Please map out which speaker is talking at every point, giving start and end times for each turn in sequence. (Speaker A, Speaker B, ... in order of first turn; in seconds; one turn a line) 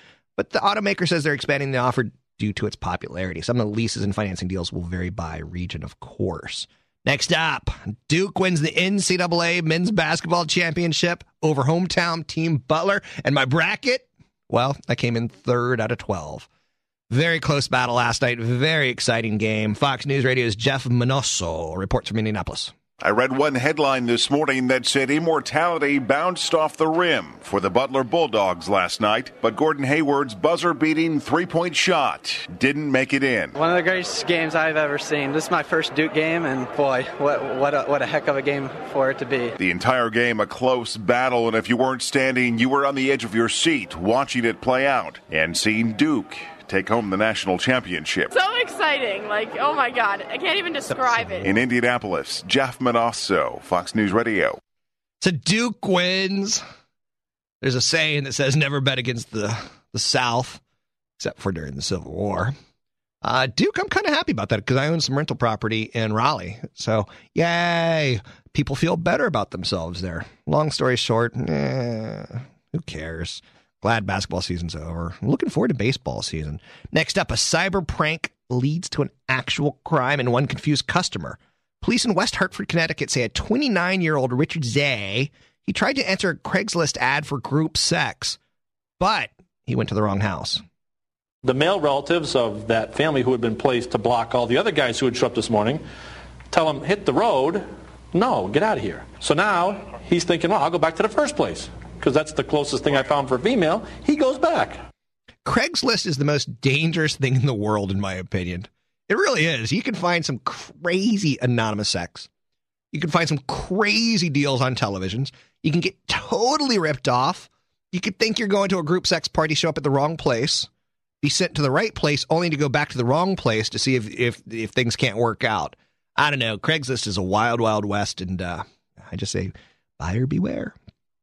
Speaker A: 0.3-16.5
Speaker A: 17.1-22.7
Speaker B: 23.0-33.5
Speaker C: 33.6-39.5
Speaker B: 39.6-48.3
Speaker D: 48.3-51.5
Speaker A: 50.9-51.6
Speaker B: 51.4-54.6
Speaker A: 55.2-56.6
Speaker A: 57.6-60.6
Speaker A: 61.2-62.5
Speaker A: 63.2-88.4
Speaker A: 89.0-90.6
Speaker E: 91.4-95.8
Speaker E: 96.5-104.8
Speaker A: 105.4-112.3
Speaker A: 112.9-120.7
Speaker A: 121.2-130.8